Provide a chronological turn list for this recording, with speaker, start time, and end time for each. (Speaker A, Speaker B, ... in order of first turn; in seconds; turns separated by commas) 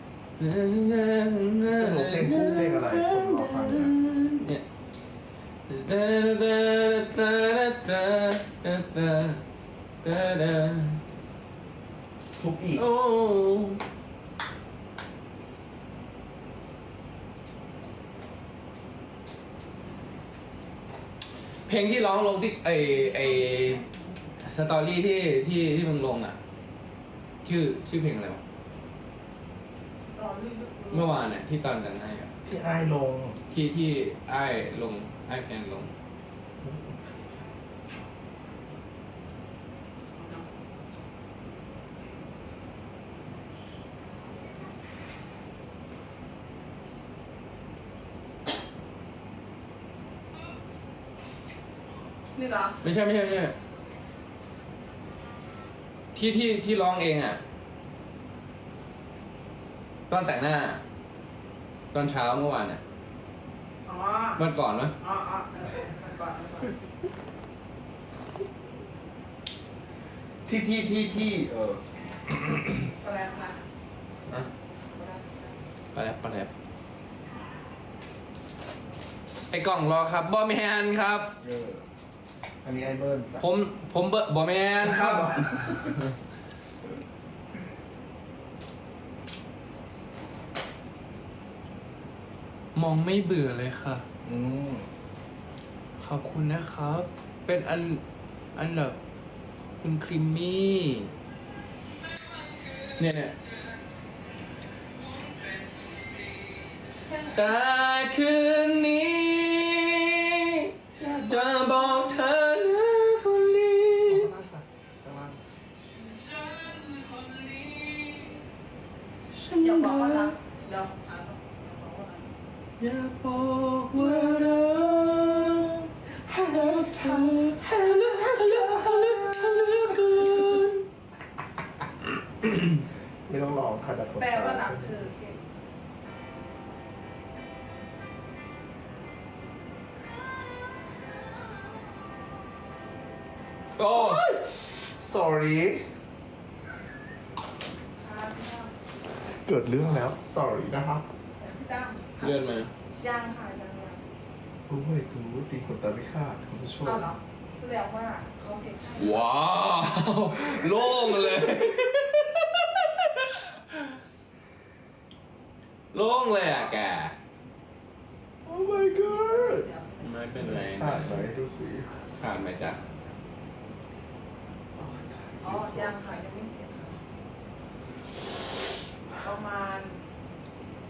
Speaker A: 0.4-4.6, Speaker B: 1.6-3.9, Speaker A: 5.7-9.4, Speaker A: 10.0-11.0, Speaker B: 12.4-12.8, Speaker A: 12.8-13.8, Speaker A: 21.7-23.8, Speaker C: 23.2-24.0, Speaker A: 24.4-26.4, Speaker A: 27.4-28.4, Speaker C: 30.1-31.1, Speaker A: 30.9-32.3, Speaker B: 32.4-33.4, Speaker A: 33.5-35.9, Speaker B: 36.6-37.1, Speaker C: 40.2-40.5, Speaker C: 52.3-52.8, Speaker A: 52.8-53.5, Speaker A: 56.1-57.4, Speaker A: 60.1-60.8, Speaker A: 61.9-62.8, Speaker C: 63.8-64.4, Speaker A: 64.3-65.0, Speaker C: 65.0-66.7, Speaker B: 70.5-71.8, Speaker C: 73.0-73.6, Speaker C: 74.9-75.5, Speaker A: 75.9-76.5, Speaker A: 79.5-81.4, Speaker B: 81.4-81.8, Speaker B: 82.6-83.4, Speaker A: 83.4-86.1, Speaker B: 84.8-85.9, Speaker A: 92.7-94.0, Speaker B: 94.2-94.9, Speaker A: 96.0-98.0, Speaker A: 98.5-99.0, Speaker A: 99.8-101.1, Speaker A: 103.0-103.3, Speaker A: 107.1-114.3, Speaker B: 111.0-111.4, Speaker B: 114.0-115.4, Speaker A: 116.3-118.3, Speaker A: 119.3-120.3, Speaker C: 119.6-122.3, Speaker A: 122.8-124.8, Speaker B: 123.9-130.6, Speaker A: 127.0-130.8, Speaker B: 133.3-134.9, Speaker C: 134.2-135.4, Speaker A: 143.8-144.2, Speaker B: 143.9-145.9, Speaker C: 148.0-148.7, Speaker B: 149.2-151.1, Speaker C: 151.4-152.3, Speaker A: 152.2-152.7, Speaker C: 153.0-154.0, Speaker B: 154.7-157.1, Speaker C: 156.8-159.3, Speaker A: 159.0-161.8, Speaker B: 160.3-162.1, Speaker A: 162.6-163.8, Speaker A: 165.9-167.1, Speaker B: 168.4-169.7, Speaker C: 168.8-170.2, Speaker A: 170.0-171.2, Speaker B: 170.4-171.9, Speaker A: 172.2-172.8, Speaker C: 172.7-173.1, Speaker B: 174.8-176.0, Speaker C: 175.4-177.0, Speaker C: 179.2-180.0